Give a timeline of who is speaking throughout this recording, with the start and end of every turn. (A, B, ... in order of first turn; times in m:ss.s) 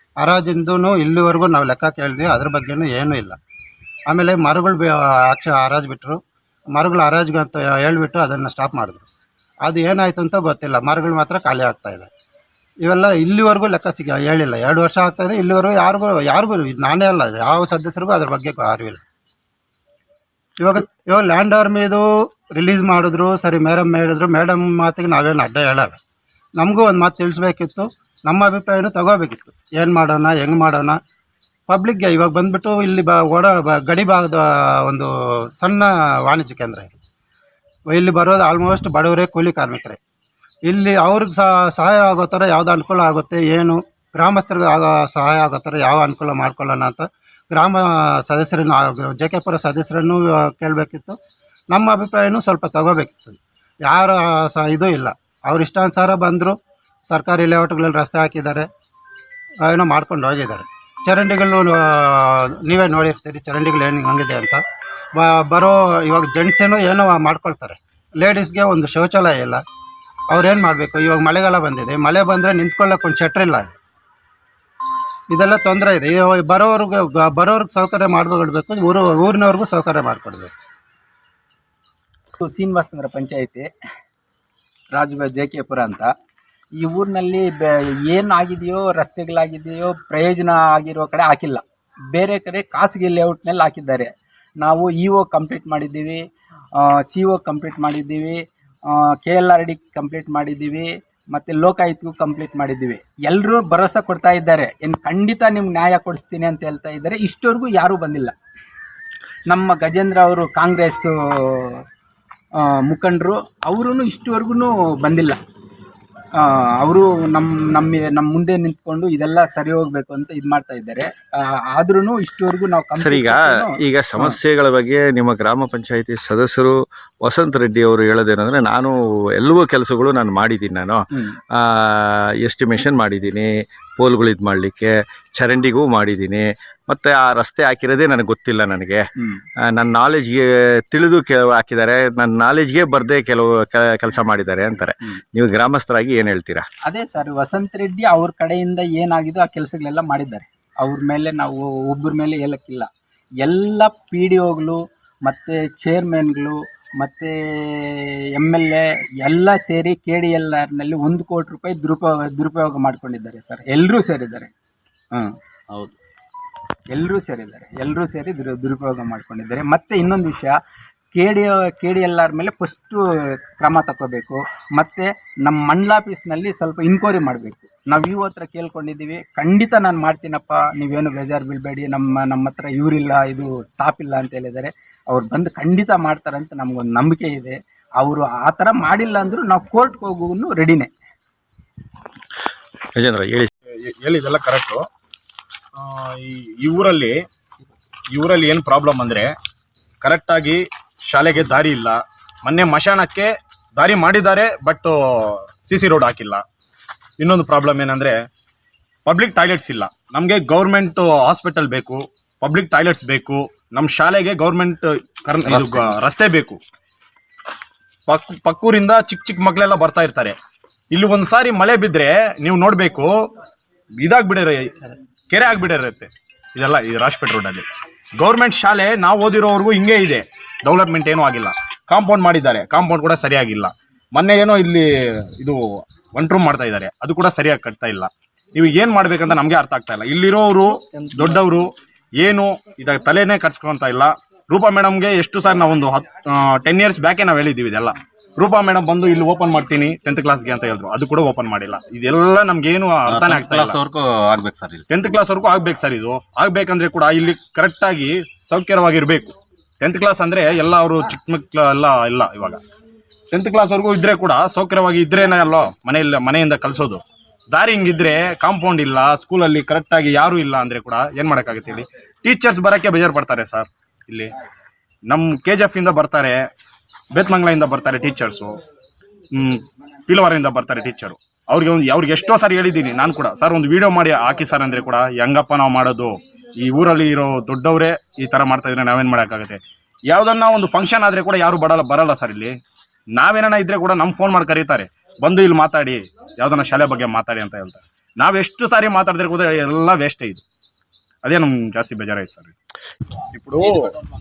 0:00.2-0:03.4 A
0:04.1-0:06.2 A
0:06.7-0:09.0 A
0:09.6-0:12.1 A
0:12.8-0:19.0 A
0:20.6-0:26.0 A
0:26.6-0:31.0 A
0:31.7-0:35.1 A
0:35.6-0:36.9 A
0:37.9-0:40.0 A
0:40.6-0:51.2 A
0:51.7-0:56.6 A
0:57.1-0:58.7 A
0:59.6-1:04.6 A
1:05.2-1:09.6 A
1:10.3-1:13.7 A
1:15.3-1:20.5 A
1:22.4-1:23.7 B
1:25.0-1:26.1 B
1:26.8-1:34.1 B
1:34.6-1:36.2 B
1:36.8-1:38.4 B
1:38.9-1:48.3 B
1:49.5-1:51.8 B
1:52.9-1:55.4 B
1:56.4-2:01.1 B
2:01.7-2:04.4 B
2:03.0-2:11.0 C
2:11.1-2:11.4 B
2:11.6-2:19.0 C
2:19.2-2:19.4 B
2:19.7-2:26.6 C
2:26.8-2:32.9 B
2:33.4-2:44.5 B
2:46.9-2:50.6 B
2:51.1-2:53.0 B
2:53.6-3:10.9 B
3:13.0-3:13.5 C
3:13.8-3:14.8 D
3:15.8-3:17.2 D
3:18.1-3:19.3 D
3:20.0-3:26.4 D
3:27.2-3:28.2 D
3:29.0-3:36.6 D
3:35.4-3:35.9 E
3:38.1-3:40.4 D
3:40.9-3:43.3 D
3:44.0-3:44.7 D
3:45.3-3:47.7 D
3:48.2-3:54.8 D
3:55.4-4:13.8 D
4:13.1-4:14.8 E
4:14.9-4:22.6 D
4:23.3-4:34.3 D
4:35.1-4:36.4 D
4:37.1-4:38.6 D
4:39.3-4:52.6 D
4:53.1-5:00.4 D
5:01.2-5:02.5 D
5:03.3-5:03.9 D